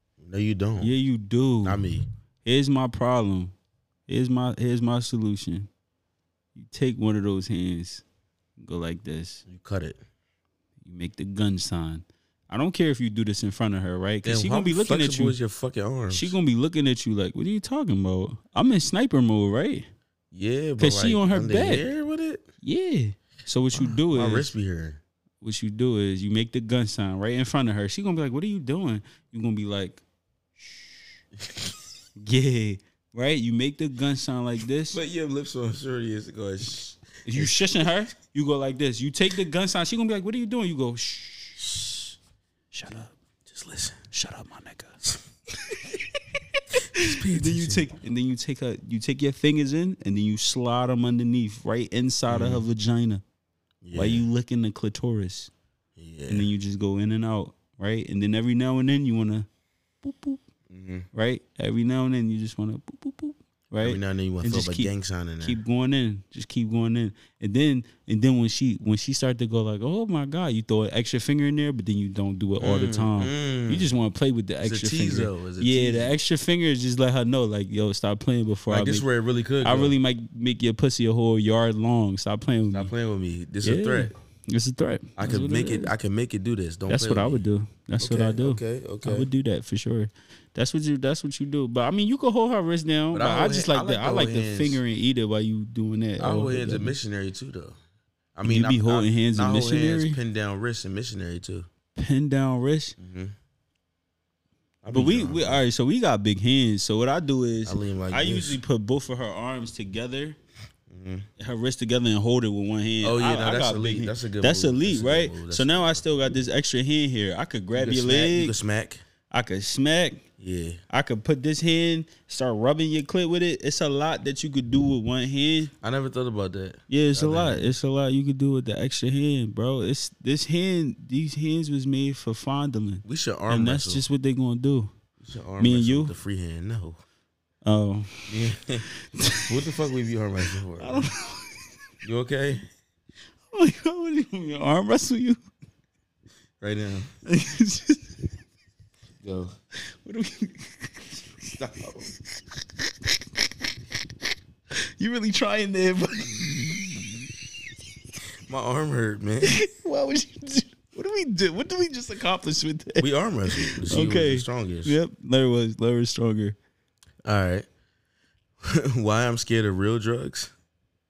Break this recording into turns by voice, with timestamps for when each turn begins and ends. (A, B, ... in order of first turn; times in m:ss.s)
0:00.2-0:00.9 A
0:00.8-0:01.8 B
0:01.6-0:02.1 A
0:02.4-0:03.5 B
0:04.1-0:05.7 B
0:06.6-0:08.0 B
0:08.6-0:09.4 B
0:09.4-0:10.0 A
0:10.8-0:15.4 B
0:14.2-0:16.4 A
0:16.1-0:19.9 B
0:20.3-0:22.4 A
0:20.8-0:21.8 B
0:22.6-0:24.5 B
0:23.7-0:25.0 A
0:25.4-0:30.0 B
0:31.4-0:31.7 A
0:32.2-0:35.0 B
0:34.9-0:37.8 A
0:37.2-0:41.8 B
0:42.7-0:43.1 B
0:43.4-0:44.0 A
0:44.1-0:45.0 B
0:46.9-0:53.2 B
0:46.9-0:47.9 A
0:52.3-0:52.6 A
0:53.8-0:54.2 A
0:53.9-0:55.5 B
0:56.0-0:56.5 A
0:56.3-0:59.5 B
1:00.0-1:00.4 B
1:00.7-1:01.1 A
1:01.1-1:19.0 B
1:03.8-1:05.6 A
1:12.6-1:13.9 A
1:14.6-1:16.1 A
1:18.7-1:19.9 A
1:19.6-1:22.9 B
1:22.7-1:24.1 A
1:23.6-1:25.9 B
1:25.2-1:27.4 A
1:26.9-1:36.9 B
1:28.0-1:29.3 A
1:33.1-1:34.8 A
1:36.2-1:37.8 A
1:38.3-1:41.7 A
1:38.4-1:40.2 B
1:41.9-1:43.0 B
1:43.0-1:43.3 A
1:44.8-1:45.6 A
1:44.9-1:50.4 B
1:47.6-1:48.6 A
1:50.9-1:51.3 A
1:51.4-1:58.6 B
1:53.0-1:56.0 A
1:57.7-1:59.0 A
1:59.3-2:00.2 B
2:00.4-2:00.8 A
2:00.9-2:05.7 B
2:05.8-2:07.7 A
2:06.9-2:14.9 B
2:13.0-2:14.0 A
2:15.2-2:17.0 A
2:15.6-2:16.1 B
2:17.6-2:18.3 B
2:18.3-2:18.8 A
2:19.1-2:19.5 B
2:19.4-2:21.0 A
2:20.8-2:21.7 B
2:22.0-2:22.6 A
2:23.5-2:25.4 B
2:26.6-2:27.1 A
2:27.2-2:28.2 B
2:29.2-2:29.5 A
2:29.9-2:31.4 B
2:31.5-2:32.1 A
2:32.8-2:33.2 B
2:35.0-2:37.3 B
2:38.4-2:39.6 A
2:39.4-2:46.6 B
2:43.0-2:45.0 A
2:47.2-2:47.7 A
2:48.6-2:50.5 A